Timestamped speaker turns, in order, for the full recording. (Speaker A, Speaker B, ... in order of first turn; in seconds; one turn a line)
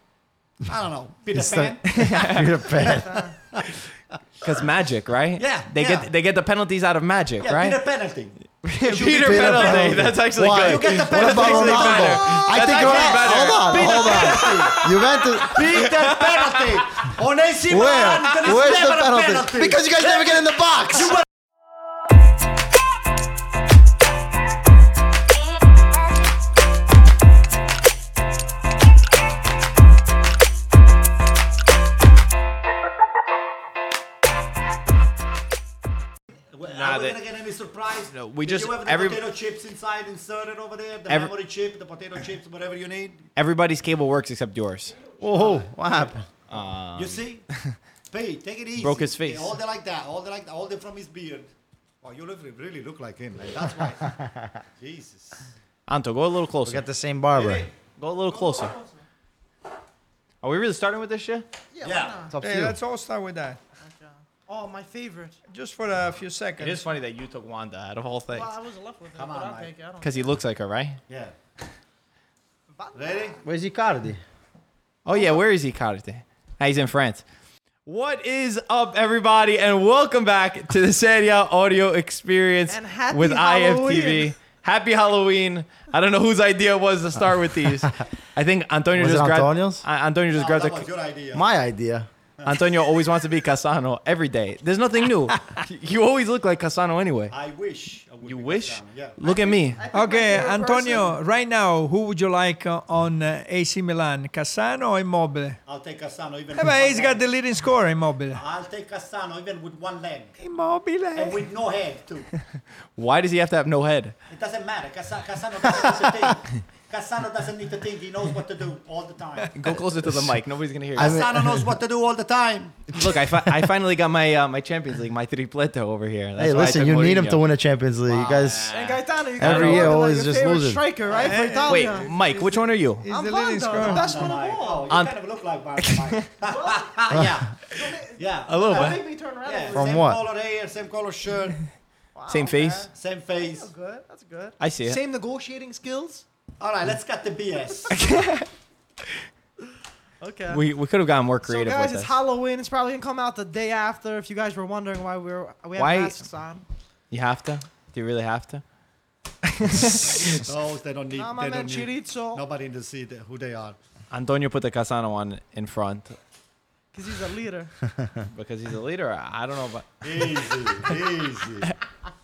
Speaker A: 0.7-2.4
Speaker B: 1.3-3.3
Speaker C: 1.9-2.5
Speaker D: 2.9-3.3
Speaker A: 3.5-4.4
Speaker C: 4.4-7.8
Speaker A: 5.4-6.1
Speaker A: 7.4-14.9
Speaker C: 8.6-16.5
Speaker B: 8.9-15.6
Speaker A: 15.4-20.4
Speaker B: 17.7-21.2
Speaker A: 20.9-21.2
Speaker A: 36.5-43.2
Speaker C: 36.7-37.2
Speaker C: 38.1-39.2
Speaker C: 43.4-45.0
Speaker B: 45.2-46.2
Speaker A: 45.3-47.5
Speaker C: 46.5-47.8
Speaker A: 48.1-51.5
Speaker C: 48.8-49.5
Speaker A: 52.0-54.2
Speaker A: 54.8-55.5
Speaker C: 55.9-56.8
Speaker B: 56.6-57.7
Speaker A: 57.3-57.7
Speaker C: 58.0-58.7
Speaker D: 58.3-58.9
Speaker C: 60.4-61.5
Speaker D: 61.7-62.4
Speaker A: 61.8-62.2
Speaker B: 62.3-62.8
Speaker E: 62.4-63.6
Speaker D: 63.8-65.4
Speaker E: 65.5-66.9
Speaker C: 66.6-68.5
Speaker D: 68.3-70.3
Speaker A: 69.1-69.7
Speaker C: 70.0-71.0
Speaker A: 71.1-71.3
Speaker D: 72.8-73.3
Speaker A: 72.9-73.4
Speaker B: 73.4-74.2
Speaker C: 75.0-77.2
Speaker D: 75.1-75.4
Speaker C: 77.8-90.9
Speaker D: 82.7-84.3
Speaker B: 88.9-89.8
Speaker A: 90.3-91.5
Speaker B: 91.3-92.1
Speaker C: 92.4-97.3
Speaker A: 97.3-99.2
Speaker C: 98.2-99.8
Speaker D: 99.2-101.2
Speaker E: 99.9-105.6
Speaker A: 105.7-107.2
Speaker E: 106.5-108.4
Speaker A: 108.3-110.4
Speaker E: 110.4-111.5
Speaker A: 111.1-112.3
Speaker C: 113.0-114.1
Speaker A: 114.3-119.5
Speaker C: 119.5-121.2
Speaker B: 119.7-120.4
Speaker B: 120.9-121.7
Speaker A: 121.0-123.0
Speaker C: 122.9-127.4
Speaker B: 126.4-128.7
Speaker C: 128.1-130.0
Speaker D: 128.7-134.9
Speaker B: 129.4-130.8
Speaker A: 131.1-131.6
Speaker E: 131.2-132.1
Speaker C: 131.7-133.0
Speaker E: 133.0-134.3
Speaker A: 133.8-137.6
Speaker C: 135.8-136.2
Speaker D: 136.4-137.1
Speaker D: 137.7-140.1
Speaker A: 138.1-141.6
Speaker C: 138.5-139.0
Speaker B: 139.7-140.2
Speaker D: 142.1-146.2
Speaker C: 142.3-142.9
Speaker A: 142.9-143.7
Speaker C: 144.6-145.0
Speaker A: 146.6-148.0
Speaker C: 147.9-148.5
Speaker D: 150.2-150.6
Speaker C: 150.5-152.1
Speaker D: 151.4-156.6
Speaker C: 155.8-156.2
Speaker C: 157.1-158.6
Speaker C: 159.4-160.4
Speaker A: 160.2-163.8
Speaker D: 161.2-162.4
Speaker C: 164.1-166.2
Speaker D: 166.9-167.7
Speaker C: 168.3-170.0
Speaker A: 170.0-171.7